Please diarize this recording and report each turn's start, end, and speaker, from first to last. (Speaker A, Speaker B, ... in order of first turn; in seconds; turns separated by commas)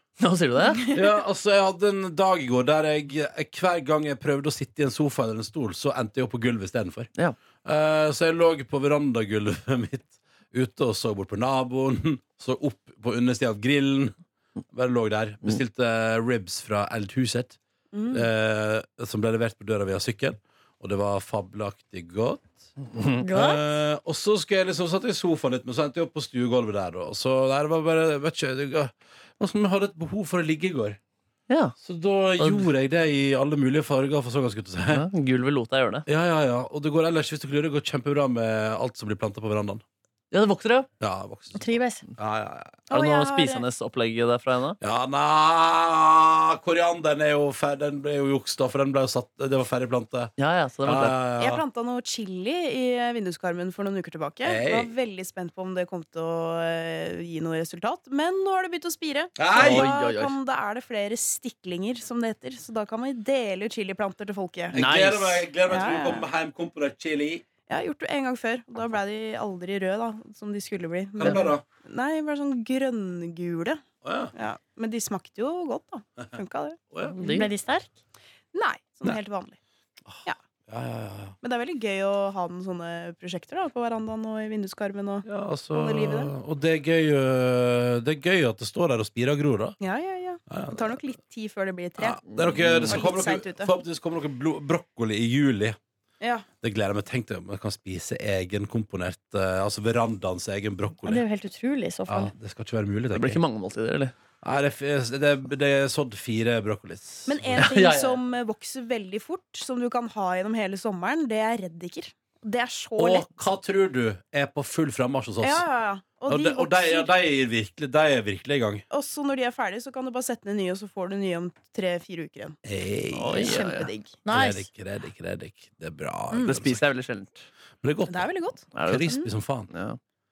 Speaker A: 0.2-0.9, Speaker B: 0.7-1.0, Speaker C: 0.9-7.1, Speaker C: 7.6-14.1, Speaker C: 14.7-17.6, Speaker B: 17.9-18.3, Speaker C: 18.1-22.7, Speaker A: 22.9-23.2, Speaker D: 23.2-23.6, Speaker C: 23.3-31.0, Speaker A: 31.5-31.7, Speaker C: 31.8-35.0, Speaker A: 32.4-32.7, Speaker A: 34.9-36.0, Speaker C: 36.0-39.8, Speaker A: 40.3-40.9, Speaker C: 41.0-42.8, Speaker D: 41.5-42.0, Speaker B: 42.9-43.6, Speaker A: 42.9-44.8, Speaker C: 44.8-50.3, Speaker A: 50.4-51.2, Speaker C: 50.8-51.6, Speaker B: 51.4-64.8, Speaker C: 54.4-54.9, Speaker C: 59.4-59.9, Speaker A: 59.5-60.4, Speaker C: 64.7-67.4, Speaker A: 64.7-65.5, Speaker B: 65.7-66.2, Speaker B: 67.7-73.8, Speaker C: 71.2-71.6, Speaker C: 74.0-74.3, Speaker B: 74.3-76.8, Speaker C: 76.9-77.2, Speaker A: 77.2-77.5, Speaker D: 77.2-77.9, Speaker B: 78.5-79.6, Speaker C: 80.1-81.3, Speaker B: 81.4-86.3, Speaker C: 85.2-89.8, Speaker B: 89.8-92.2, Speaker C: 90.5-91.0, Speaker C: 92.0-95.8, Speaker A: 92.3-93.0, Speaker B: 92.8-93.7, Speaker B: 96.2-96.5, Speaker C: 96.6-101.2, Speaker D: 101.0-102.3, Speaker C: 102.1-103.4, Speaker A: 103.1-104.1, Speaker C: 104.4-107.7, Speaker B: 107.2-113.3, Speaker A: 107.5-108.2, Speaker C: 113.0-115.6, Speaker B: 115.4-117.1, Speaker C: 116.3-118.8, Speaker B: 118.9-122.6, Speaker C: 122.6-123.7, Speaker A: 123.1-123.9, Speaker B: 123.3-124.2, Speaker D: 124.2-124.7, Speaker C: 124.3-126.8, Speaker A: 126.4-127.5, Speaker C: 127.8-129.7, Speaker B: 128.1-129.3, Speaker A: 128.7-130.0